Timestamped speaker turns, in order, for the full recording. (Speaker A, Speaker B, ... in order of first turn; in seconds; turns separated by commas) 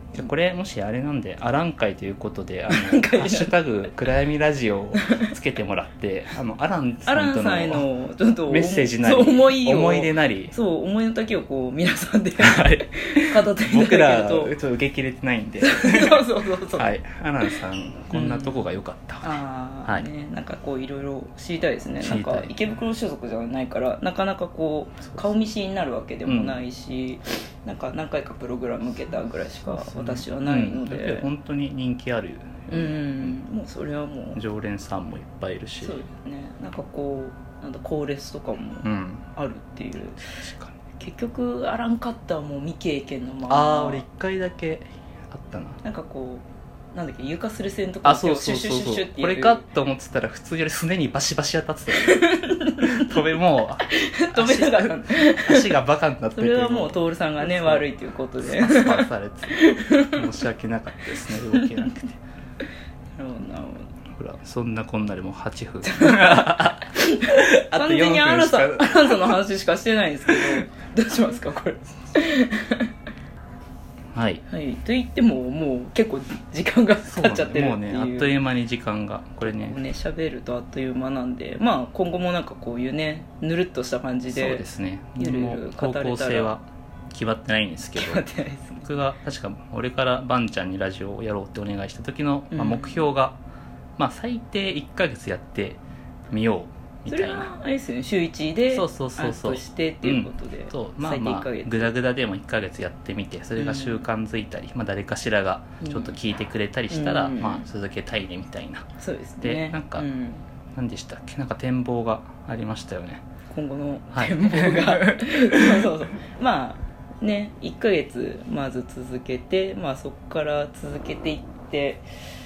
Speaker A: 0.1-7.9, Speaker B: 2.7-3.7, Speaker B: 5.0-5.3, Speaker B: 7.0-14.5, Speaker A: 8.5-10.5, Speaker A: 12.4-20.1, Speaker B: 15.6-16.9, Speaker B: 18.1-18.6, Speaker B: 19.2-31.3, Speaker A: 22.0-22.6, Speaker A: 25.0-25.4, Speaker A: 26.2-26.6, Speaker A: 29.6-33.4, Speaker B: 32.7-34.4, Speaker A: 34.3-36.0, Speaker B: 35.8-40.2, Speaker A: 38.8-39.2, Speaker A: 40.4-40.7, Speaker B: 41.0-44.0, Speaker A: 43.5-45.8, Speaker B: 45.8-49.6, Speaker A: 48.0-57.9, Speaker B: 51.9-53.2, Speaker B: 53.9-55.8, Speaker B: 56.3-60.2, Speaker A: 58.4-62.2, Speaker B: 61.4-61.8, Speaker B: 63.1-63.9, Speaker A: 64.1-69.4, Speaker B: 65.8-72.9, Speaker A: 70.3-70.6, Speaker A: 74.1-74.4, Speaker B: 74.5-78.4, Speaker A: 77.0-79.8, Speaker B: 79.4-84.7, Speaker A: 84.3-88.2, Speaker B: 85.2-86.6, Speaker B: 88.0-88.9, Speaker A: 88.8-93.4, Speaker B: 92.5-93.1, Speaker A: 94.0-97.5, Speaker B: 97.1-101.9, Speaker A: 98.7-108.9, Speaker B: 103.6-104.0, Speaker B: 105.8-106.2, Speaker B: 106.9-107.6, Speaker B: 109.0-110.4, Speaker A: 109.4-110.0, Speaker A: 110.7-113.2, Speaker B: 113.5-122.0, Speaker A: 114.1-115.8